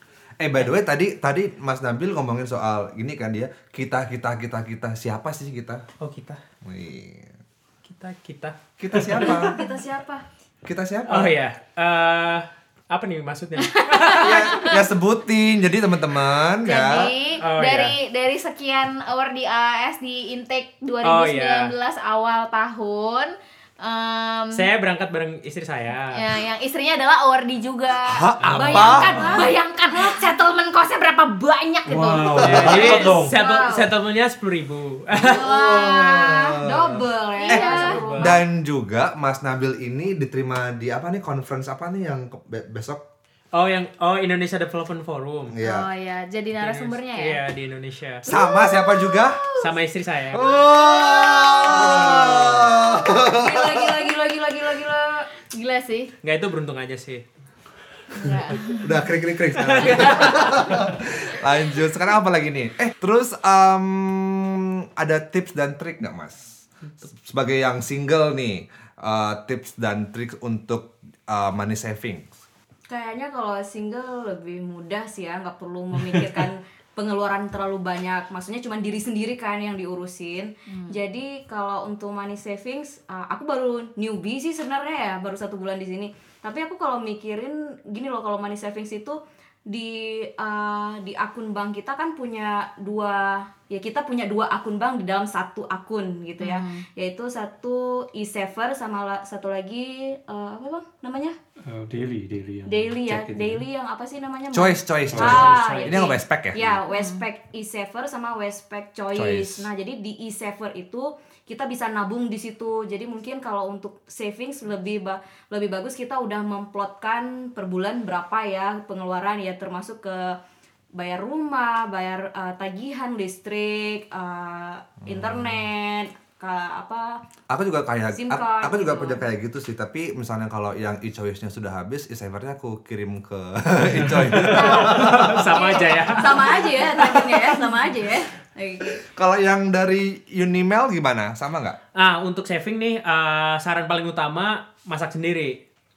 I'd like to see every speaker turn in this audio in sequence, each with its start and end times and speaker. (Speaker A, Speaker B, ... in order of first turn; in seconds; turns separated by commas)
Speaker A: 0.4-5.8, Speaker B: 6.0-6.4, Speaker A: 6.6-7.3, Speaker B: 7.9-9.5, Speaker A: 8.8-9.6, Speaker C: 9.2-10.2, Speaker A: 10.7-11.3, Speaker B: 11.1-14.7, Speaker D: 13.7-14.8, Speaker A: 14.2-17.1, Speaker D: 16.6-24.7, Speaker B: 17.4-17.9, Speaker B: 21.0-21.7, Speaker B: 24.5-26.2, Speaker D: 26.1-33.9, Speaker A: 28.1-29.3, Speaker C: 28.5-30.2, Speaker E: 31.9-33.4, Speaker B: 32.4-35.5, Speaker C: 33.4-33.8, Speaker D: 35.2-36.6, Speaker C: 35.2-38.4, Speaker A: 35.4-37.0, Speaker D: 37.4-38.0, Speaker B: 37.6-38.4, Speaker A: 38.2-43.0, Speaker B: 43.5-45.5, Speaker A: 45.5-45.9, Speaker D: 45.6-47.4, Speaker B: 46.6-48.2, Speaker A: 48.2-49.5, Speaker D: 48.3-49.7, Speaker B: 49.6-50.5, Speaker A: 50.3-53.9, Speaker D: 50.5-52.4, Speaker C: 51.6-55.3, Speaker D: 55.5-56.1, Speaker B: 56.2-57.2, Speaker D: 58.1-59.0, Speaker A: 58.8-72.3, Speaker B: 59.5-60.7, Speaker C: 72.9-101.4, Speaker D: 80.7-81.0, Speaker D: 96.4-96.8, Speaker E: 101.7-103.7, Speaker C: 102.7-120.4, Speaker A: 104.5-106.8, Speaker E: 105.1-106.1, Speaker D: 106.9-107.3, Speaker A: 109.1-109.7, Speaker C: 120.9-127.2, Speaker A: 125.1-125.6, Speaker A: 127.5-135.7, Speaker C: 128.1-129.2, Speaker E: 134.0-134.7, Speaker C: 134.5-139.1, Speaker B: 134.5-136.5, Speaker A: 139.1-141.8, Speaker B: 141.9-145.6